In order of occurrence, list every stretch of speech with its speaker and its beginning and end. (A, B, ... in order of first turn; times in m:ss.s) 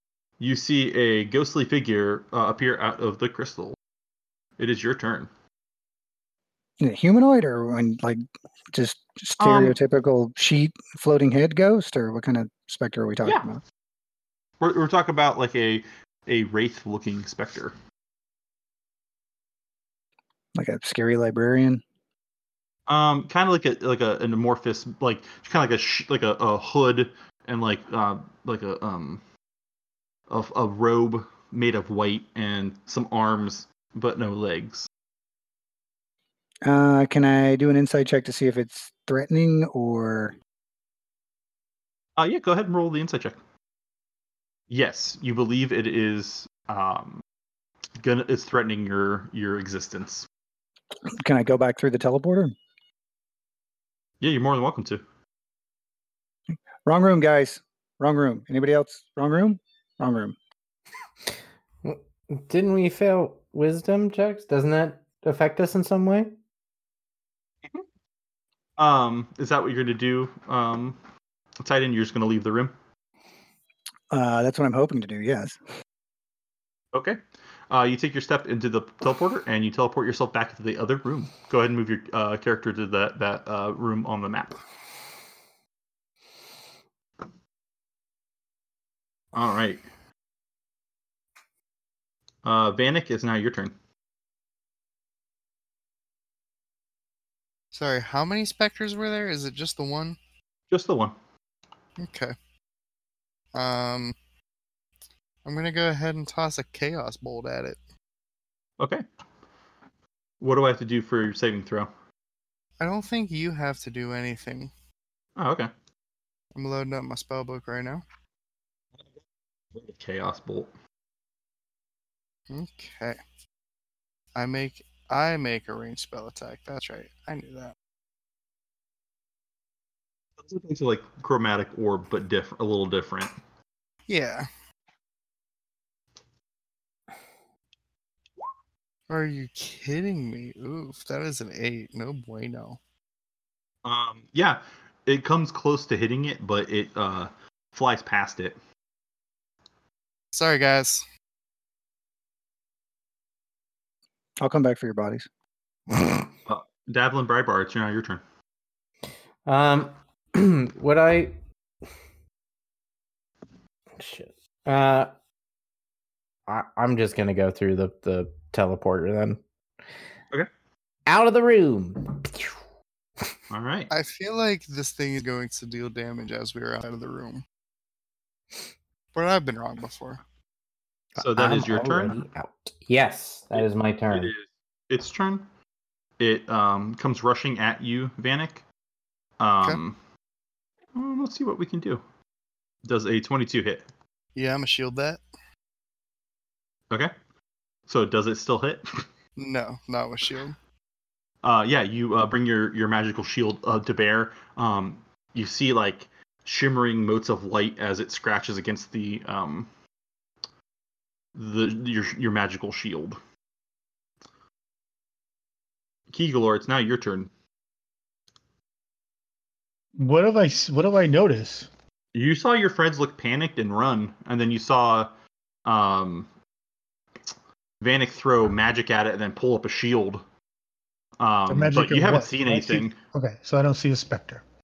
0:00.4-0:03.8 A
0:04.6-0:05.3 A
0:06.8-0:08.2 B
0:08.7-0:13.6 B
0:09.4-0:09.8 A
0:14.6-0:17.7 A
0:20.5-0:21.8 B
0:22.9-0:29.2 A
0:30.3-0:34.9 A
0:36.6-0:40.3 B
0:42.2-0:43.4 A
0:44.7-0:47.2 A
0:48.0-0:50.3 A
0:51.2-0:52.6 B
0:54.2-0:55.0 A
0:56.5-1:00.3 B
1:01.8-1:06.4 C
1:08.8-1:11.0 A
1:11.6-1:12.7 A
1:14.1-1:15.6 B
1:16.9-1:24.6 A
1:29.3-1:29.8 A
1:32.4-1:33.7 A
1:37.7-1:40.2 D
1:40.7-1:41.2 A
1:42.0-1:42.3 D
1:43.5-1:44.2 D
1:45.4-1:47.8 D
1:48.8-1:49.0 A
1:50.4-1:51.9 A
1:52.8-1:54.7 D
1:55.4-1:55.7 A
1:56.5-1:58.0 D
1:59.7-2:00.7 A
2:02.5-2:03.2 D
2:04.4-2:07.7 D
2:10.4-2:13.3 A
2:14.1-2:14.5 D
2:19.1-2:22.8 D
2:23.8-2:28.6 A
2:30.3-2:31.0 D
2:34.4-2:35.2 B
2:36.4-2:38.2 A
2:39.4-2:41.4 C
2:44.0-2:45.1 C
2:46.5-2:49.4 C
2:51.1-2:52.6 C
2:53.5-2:53.9 A
2:53.9-2:57.4 D
2:59.1-3:00.2 D
3:01.2-3:02.2 A
3:01.2-3:04.3 C
3:03.6-3:05.5 A
3:06.2-3:08.6 A
3:09.4-3:10.0 A
3:10.9-3:12.0 A
3:12.8-3:13.9 A
3:14.4-3:15.2 D
3:17.9-3:19.0 A
3:19.4-3:20.6 D
3:21.4-3:29.7 A
3:31.3-3:33.2 A
3:36.1-3:37.3 A
3:40.0-3:41.7 E
3:42.1-3:45.1 A
3:45.6-3:46.3 A
3:47.8-3:50.2 A
3:51.2-3:53.0 A
3:51.5-3:54.4 E